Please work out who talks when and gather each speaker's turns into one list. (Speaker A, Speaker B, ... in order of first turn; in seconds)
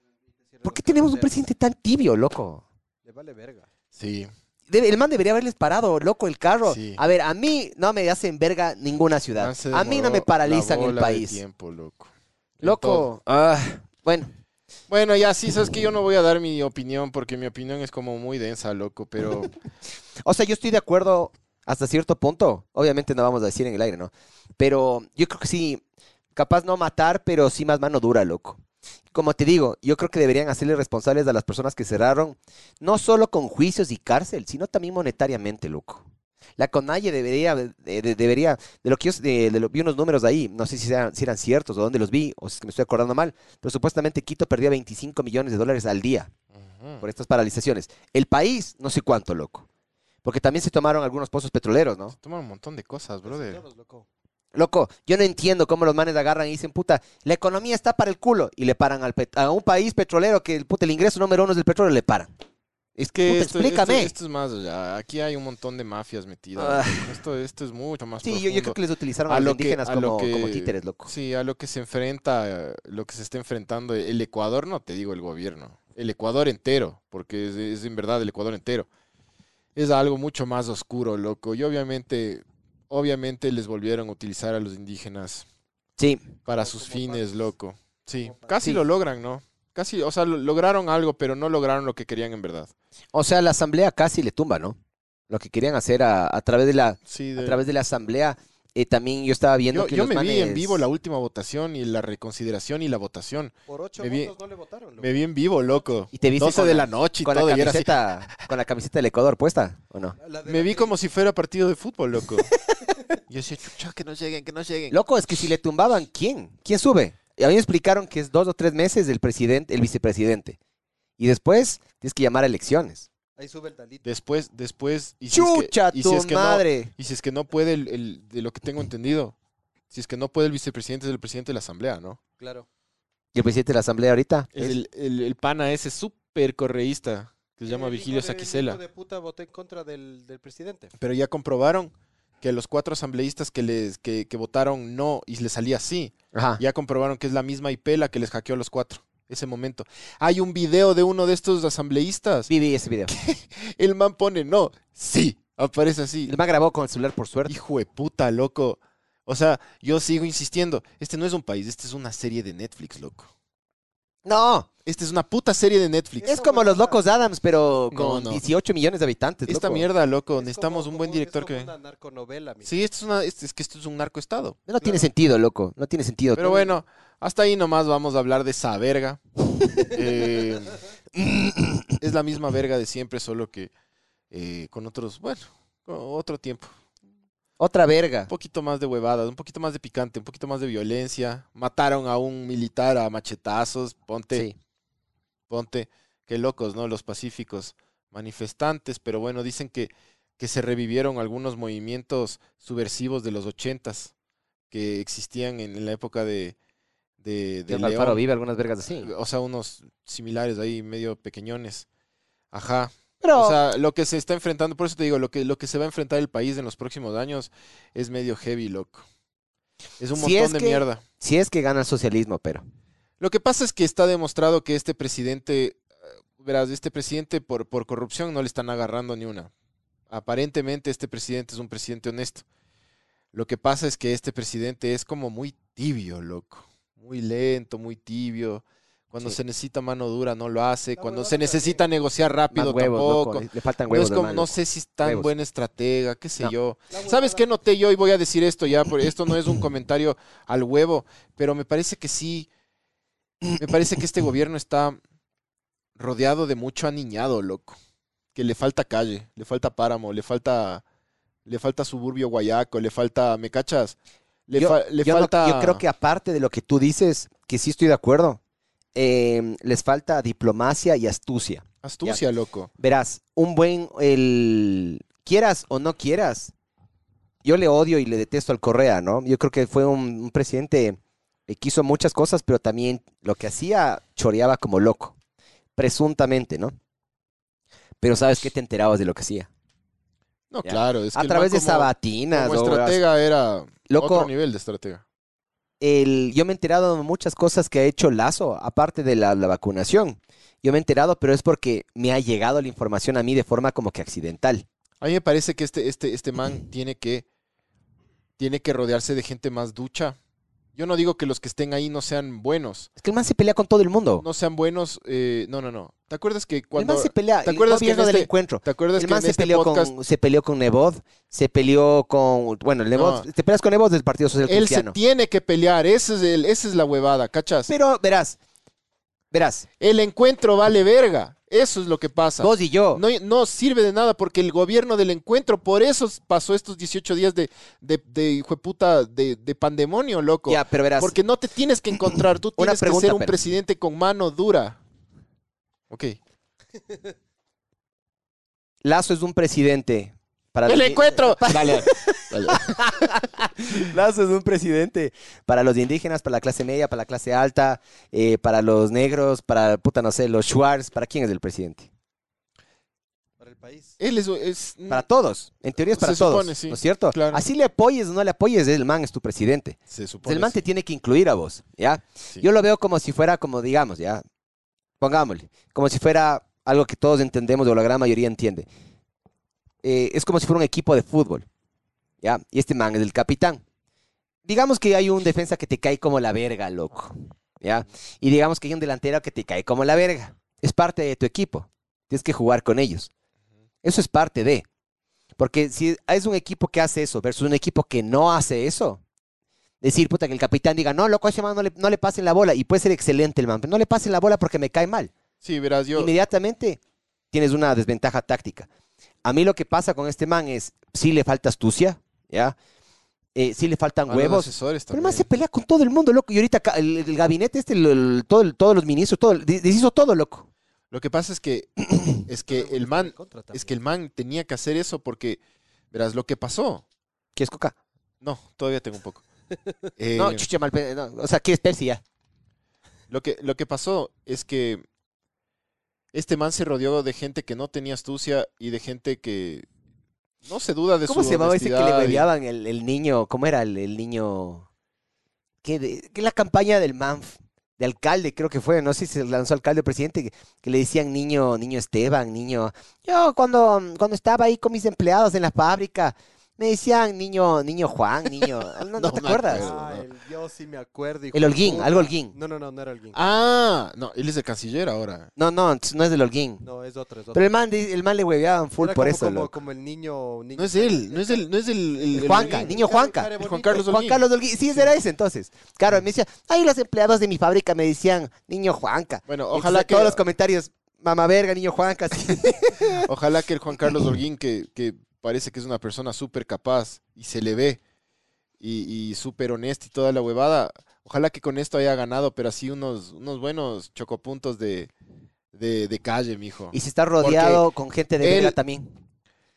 Speaker A: 0.5-1.4, 3.0-3.7, 53.2-54.1, 86.5-87.5, 88.2-88.7, 103.7-105.2, 110.2-111.0, 123.4-124.1, 132.4-132.7, 137.7-140.9, 166.2-167.0, 170.4-172.7, 174.8-175.1, 241.0-241.8, 246.9-247.5, 363.4-363.9, 422.5-423.7, 459.4-463.2, 466.6-467.5, 468.8-471.5, 472.1-473.9
Speaker B: 0.6-2.6, 4.7-11.4, 12.6-14.3, 20.2-25.8, 26.4-28.6, 29.1-36.0, 36.6-46.3, 47.0-49.7, 50.2-52.1, 54.5-62.3, 63.0-64.1, 66.6-67.1, 68.2-71.1, 86.0-86.3, 93.1-94.8, 95.3-100.8, 106.1-110.2, 114.9-120.6, 121.2-123.1, 125.3-126.9, 133.3-134.8, 146.3-146.6, 152.5-153.1, 156.2-157.6, 164.2-164.7, 166.3-169.9, 174.7-176.7, 181.2-182.0, 187.6-188.3, 207.7-209.1, 213.2-213.6, 220.2-222.6, 242.5-245.3, 264.6-268.4, 268.9-272.2, 272.8-276.5, 277.4-285.2, 285.8-286.8, 288.0-289.5, 290.6-293.0, 293.9-294.3, 295.8-304.7, 313.0-314.2, 316.8-324.9, 327.7-328.4, 329.3-329.7, 332.4-333.0, 340.5-341.2, 342.6-343.4, 348.8-361.9, 364.9-374.2, 375.0-378.7, 379.8-381.5, 382.2-383.6, 384.5-393.1, 393.8-394.7, 395.4-399.0, 399.8-405.1, 405.9-406.8, 407.3-408.7, 409.2-412.6, 413.4-420.5, 427.4-427.8, 430.1-432.0, 441.1-444.7, 445.6-459.7, 461.3-462.3, 465.4-466.6, 467.3-469.5, 472.2-483.1, 496.7-498.9
Speaker C: 4.0-4.3, 6.7-7.0, 9.4-13.1, 14.9-19.5, 46.6-47.0, 52.1-53.6, 63.1-78.9, 79.8-85.5, 86.5-92.7, 97.1-97.6, 99.7-104.3, 105.0-107.9, 110.5-112.5, 113.3-115.0, 124.1-129.3, 129.9-132.2, 134.5-138.8, 141.0-152.5, 153.1-156.3, 157.5-163.3, 164.9-166.3, 167.9-168.4, 169.5-171.7, 172.7-174.6, 176.3-179.2, 179.8-180.8, 182.0-183.7, 184.3-186.7, 188.3-194.5, 195.5-204.1, 204.7-206.6, 207.2-208.2, 209.0-211.9, 212.5-219.1, 220.0-221.0, 223.2-225.8, 226.4-229.5, 230.1-232.4, 233.3-252.5, 253.6-255.0, 256.0-257.8, 258.4-260.8, 261.5-264.0, 264.5-265.8, 271.8-272.7, 290.5-295.0, 305.0-307.2, 308.4-310.2, 310.8-312.9, 314.2-319.9, 322.9-323.3, 324.5-327.7, 329.8-344.8, 345.9-346.2, 350.7-353.1, 364.0-365.1, 365.9-367.4, 369.9-370.6, 405.4-406.1, 414.1-415.3, 420.9-425.4, 425.9-426.8, 428.2-429.2, 430.0-430.5, 433.1-434.8, 436.1-439.7, 440.4-442.3, 459.0-460.1, 463.1-465.3, 470.6-472.8, 473.4-474.9, 479.3-480.2, 483.0-487.8, 488.6-494.9, 495.5-497.6, 498.2-498.6